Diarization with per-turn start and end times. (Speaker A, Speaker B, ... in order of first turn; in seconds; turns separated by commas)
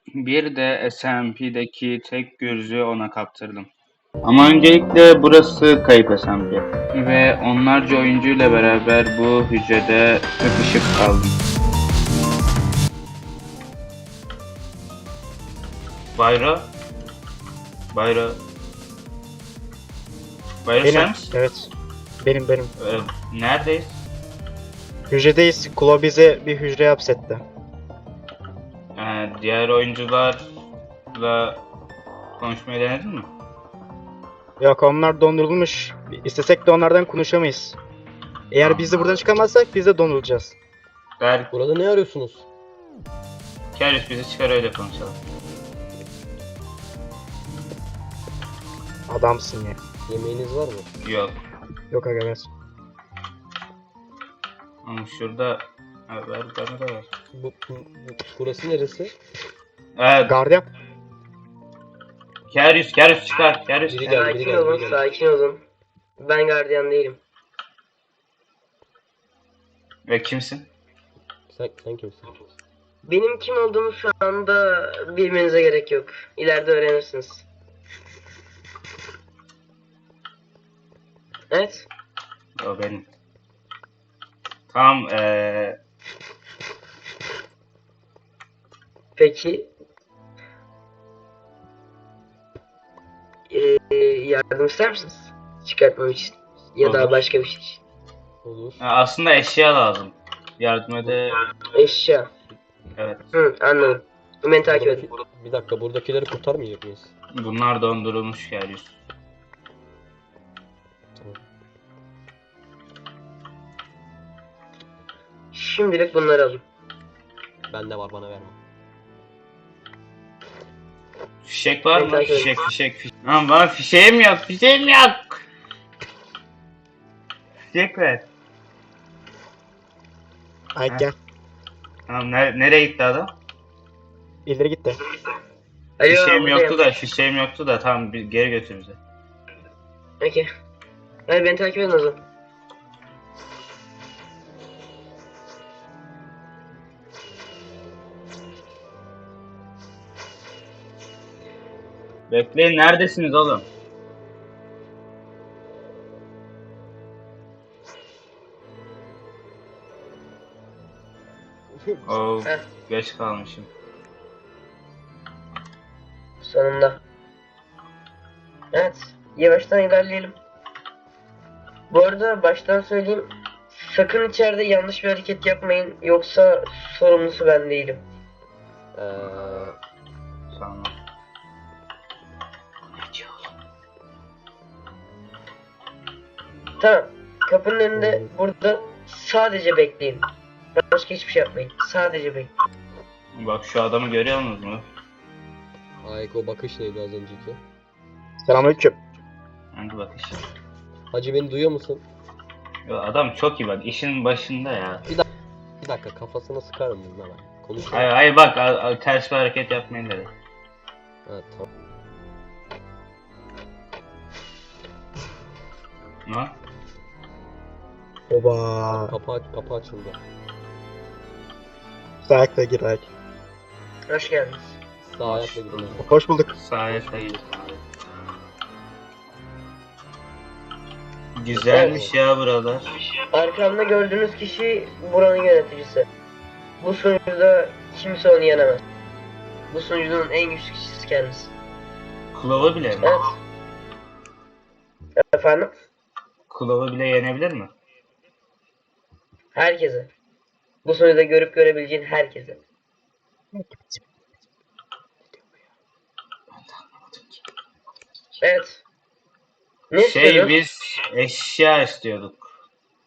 Speaker A: 0.2-3.7, Speaker A: 4.2-11.3, Speaker A: 16.1-16.7, Speaker A: 17.9-18.4, Speaker A: 20.6-21.3, Speaker B: 20.8-22.7, Speaker A: 22.8-24.0, Speaker B: 25.1-27.4, Speaker A: 29.0-30.5, Speaker A: 31.1-31.6, Speaker A: 32.4-33.3, Speaker B: 34.6-37.8, Speaker B: 38.5-40.6, Speaker A: 38.6-39.3, Speaker A: 41.2-41.5, Speaker C: 41.5-42.5, Speaker A: 43.8-45.2, Speaker B: 49.1-49.8, Speaker C: 50.1-50.9, Speaker A: 51.0-51.4, Speaker B: 51.9-52.5, Speaker A: 54.8-57.1, Speaker C: 57.3-59.1, Speaker A: 60.0-60.4, Speaker B: 60.3-60.7, Speaker A: 62.5-64.3, Speaker C: 63.9-65.0, Speaker D: 64.0-65.6, Speaker D: 66.2-67.2, Speaker A: 70.1-70.7, Speaker C: 71.5-72.3, Speaker D: 73.0-77.5, Speaker D: 81.5-81.9, Speaker A: 82.6-83.1, Speaker A: 84.7-85.8, Speaker D: 89.2-89.7, Speaker D: 93.5-97.8, Speaker A: 96.8-97.2, Speaker C: 98.4-98.8, Speaker A: 98.8-101.4, Speaker D: 101.7-102.3, Speaker A: 103.0-103.3, Speaker D: 103.3-105.1, Speaker C: 104.6-107.1, Speaker A: 107.3-109.0, Speaker C: 111.2-111.4, Speaker D: 115.5-116.6, Speaker C: 117.7-118.6, Speaker A: 121.4-125.4, Speaker D: 121.9-122.6, Speaker A: 127.7-128.3, Speaker B: 130.8-131.2, Speaker A: 132.1-133.4, Speaker B: 134.5-135.0, Speaker D: 136.0-136.9, Speaker A: 136.1-139.0, Speaker D: 140.2-140.5, Speaker D: 141.3-142.2, Speaker A: 152.3-153.7, Speaker C: 161.7-162.2, Speaker A: 162.1-163.7, Speaker D: 166.4-167.0, Speaker D: 168.7-170.4, Speaker D: 171.9-178.0, Speaker C: 178.9-179.8, Speaker A: 179.2-179.7, Speaker A: 180.5-181.0, Speaker A: 183.0-183.5, Speaker D: 186.8-192.5, Speaker A: 193.3-194.9, Speaker C: 196.0-197.6, Speaker B: 198.4-199.0, Speaker A: 199.7-200.4, Speaker C: 201.1-202.1, Speaker A: 202.9-205.1, Speaker C: 205.8-208.1, Speaker A: 207.9-210.3, Speaker C: 211.3-211.7, Speaker A: 216.3-216.6, Speaker B: 218.3-219.2, Speaker C: 218.9-220.2, Speaker B: 222.2-223.1, Speaker D: 224.1-224.8, Speaker C: 225.1-226.1, Speaker A: 225.2-226.0, Speaker B: 226.0-226.6, Speaker A: 226.6-227.8, Speaker C: 226.9-227.4, Speaker A: 231.3-232.9, Speaker C: 231.5-232.2, Speaker D: 231.7-232.1, Speaker D: 233.3-236.1, Speaker D: 236.8-238.8, Speaker D: 239.7-241.5, Speaker A: 242.3-243.2, Speaker D: 243.0-243.4, Speaker D: 245.2-245.8, Speaker A: 246.5-247.7, Speaker D: 249.5-250.1, Speaker D: 250.8-252.6, Speaker B: 253.5-254.0, Speaker A: 256.5-257.4, Speaker D: 258.4-258.8, Speaker D: 259.9-260.6, Speaker A: 260.0-262.5